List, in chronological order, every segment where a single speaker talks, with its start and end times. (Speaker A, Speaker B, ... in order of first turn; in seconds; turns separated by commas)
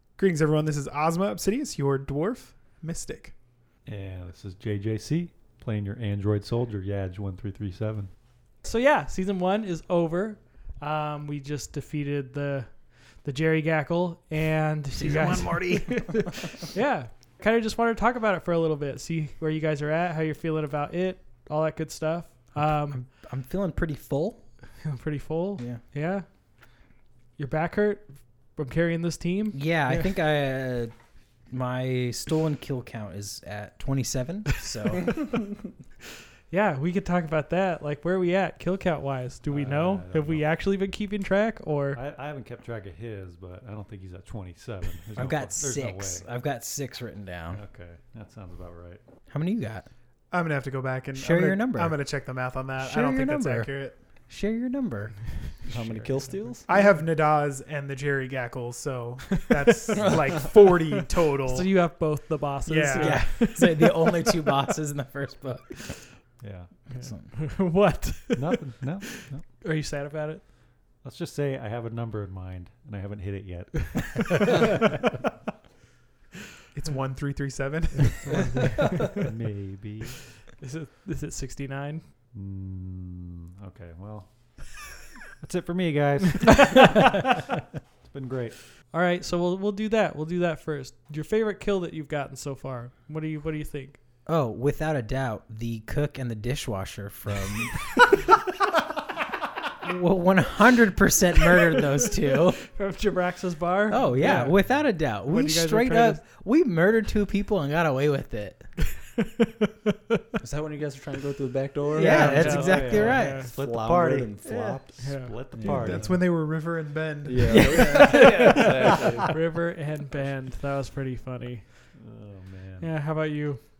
Speaker A: 0.2-3.3, Speaker B: 3.9-8.1, Speaker C: 8.6-23.0, Speaker D: 14.9-16.2, Speaker D: 22.6-24.5, Speaker C: 24.8-26.2, Speaker C: 27.4-30.1, Speaker D: 29.5-30.9, Speaker D: 31.5-35.3, Speaker C: 36.5-42.0, Speaker B: 39.5-40.4, Speaker B: 41.9-46.3, Speaker D: 45.1-47.6, Speaker B: 47.5-49.0, Speaker D: 49.3-49.9, Speaker A: 50.3-53.9, Speaker D: 51.1-52.0, Speaker D: 52.8-55.2, Speaker C: 55.7-56.5, Speaker E: 55.7-56.7, Speaker A: 56.7-61.9, Speaker E: 60.0-60.3, Speaker C: 61.5-64.4, Speaker A: 62.6-63.3, Speaker D: 62.9-66.2, Speaker B: 66.4-66.9, Speaker D: 66.9-67.3, Speaker C: 66.9-70.4, Speaker B: 68.3-69.5, Speaker B: 71.0-74.6, Speaker A: 76.7-78.7, Speaker C: 78.2-78.6, Speaker B: 79.2-80.3, Speaker C: 80.6-82.0, Speaker B: 82.3-87.4, Speaker B: 88.0-88.7, Speaker C: 88.9-94.0, Speaker D: 94.2-98.0, Speaker D: 99.8-102.6, Speaker C: 102.7-106.2, Speaker D: 103.9-108.7, Speaker B: 104.2-104.9, Speaker C: 109.2-110.2, Speaker E: 110.4-115.0, Speaker D: 112.0-113.5, Speaker C: 112.0-113.5, Speaker B: 112.0-116.2, Speaker C: 115.0-115.4, Speaker E: 115.5-116.2, Speaker A: 115.6-118.1, Speaker E: 117.2-119.3, Speaker D: 117.4-118.7, Speaker C: 118.0-118.6, Speaker C: 119.3-121.9, Speaker B: 121.9-122.9, Speaker C: 122.8-123.6